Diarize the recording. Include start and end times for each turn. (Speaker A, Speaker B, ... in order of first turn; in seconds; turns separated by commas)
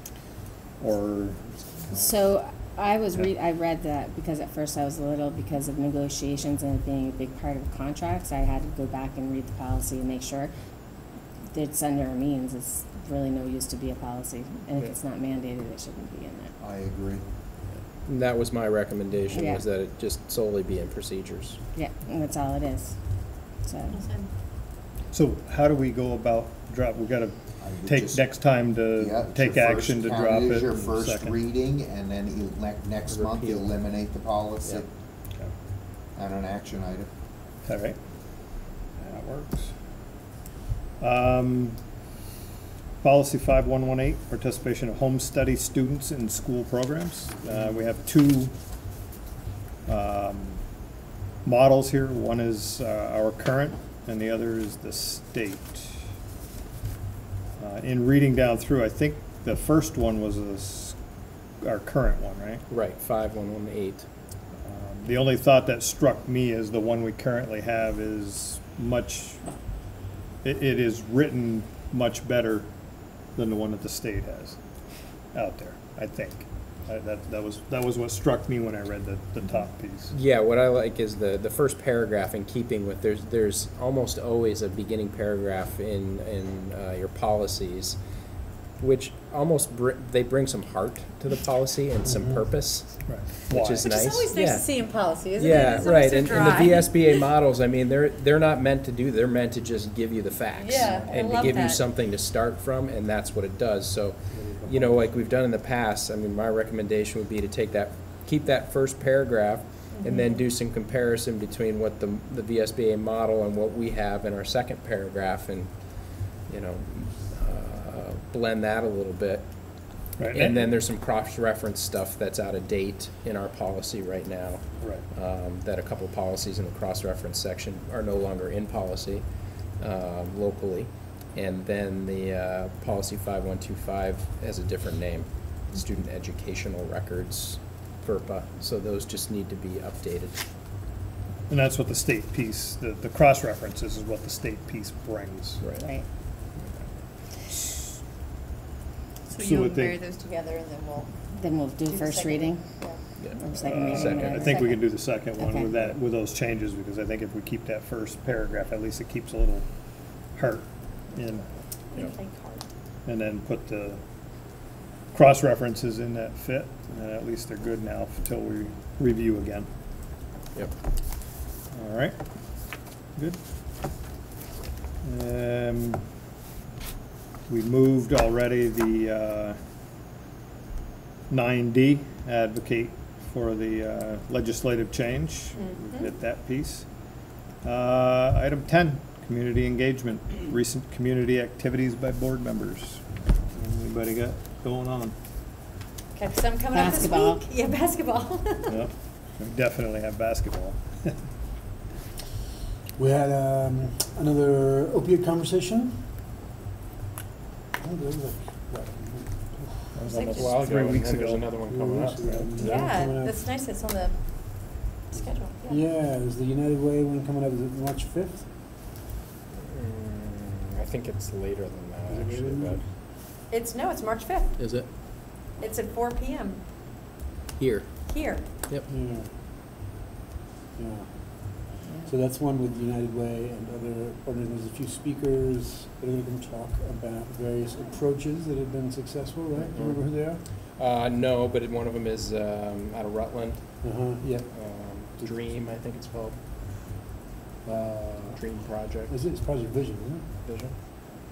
Speaker A: 0.8-1.4, Speaker B: 1.9-10.5, Speaker B: 11.5-16.5, Speaker C: 16.6-17.2, Speaker D: 17.7-21.6, Speaker B: 19.3-19.6, Speaker B: 21.7-23.0, Speaker B: 23.6-24.0, Speaker E: 23.9-24.3, Speaker A: 25.1-31.4, Speaker C: 27.6-28.4, Speaker C: 28.9-34.9, Speaker D: 33.1-34.0, Speaker C: 36.1-37.1, Speaker A: 37.6-38.0, Speaker A: 39.0-39.7, Speaker A: 41.0-41.8, Speaker A: 43.0-48.5, Speaker A: 49.9-50.6, Speaker A: 51.4-56.0, Speaker A: 57.6-61.0, Speaker A: 61.6-62.6, Speaker D: 62.7-64.1, Speaker A: 64.6-69.4, Speaker A: 70.4-72.7, Speaker A: 73.3-74.6, Speaker A: 75.3-80.1, Speaker D: 80.1-88.0, Speaker D: 88.8-94.7, Speaker F: 92.0-92.5, Speaker A: 93.1-93.9, Speaker E: 93.8-97.2, Speaker D: 95.3-115.7, Speaker E: 100.5-101.8, Speaker F: 100.8-101.1, Speaker F: 104.3-105.1, Speaker E: 109.9-110.4, Speaker D: 116.4-119.5, Speaker A: 120.2-120.5, Speaker D: 120.3-129.3, Speaker A: 124.8-125.0, Speaker D: 129.8-140.4, Speaker A: 141.5-145.6, Speaker D: 145.6-145.8, Speaker B: 145.8-146.0, Speaker A: 147.5-147.9, Speaker E: 149.3-151.1, Speaker A: 149.4-150.0, Speaker B: 151.3-152.6, Speaker E: 151.8-153.1, Speaker D: 153.2-154.5, Speaker B: 153.3-154.8, Speaker A: 153.5-159.7, Speaker E: 154.0-154.9, Speaker B: 155.3-155.8, Speaker A: 160.3-161.5, Speaker E: 161.9-162.6, Speaker A: 163.0-164.0, Speaker A: 165.1-169.7, Speaker A: 171.7-172.2, Speaker A: 175.0-176.0, Speaker A: 177.5-179.6, Speaker A: 181.3-186.9, Speaker E: 185.5-186.1, Speaker A: 187.6-193.0, Speaker A: 193.5-195.1, Speaker E: 196.2-198.8, Speaker B: 196.7-197.4, Speaker A: 198.7-201.1, Speaker F: 203.0-206.1, Speaker F: 207.8-209.9, Speaker A: 209.9-211.5, Speaker E: 210.1-210.6, Speaker D: 210.3-212.5, Speaker F: 211.6-213.4, Speaker A: 212.2-212.5, Speaker E: 212.6-215.8, Speaker F: 215.1-218.5, Speaker D: 219.6-222.8, Speaker F: 222.1-222.9, Speaker E: 223.5-224.6, Speaker D: 224.6-224.9, Speaker E: 225.6-226.6, Speaker D: 227.6-228.0, Speaker E: 228.0-228.4, Speaker F: 228.9-229.3, Speaker F: 230.8-240.4, Speaker D: 239.6-240.2, Speaker D: 240.8-246.4, Speaker F: 243.8-244.5, Speaker F: 247.6-250.3, Speaker D: 248.3-249.1, Speaker D: 250.4-250.7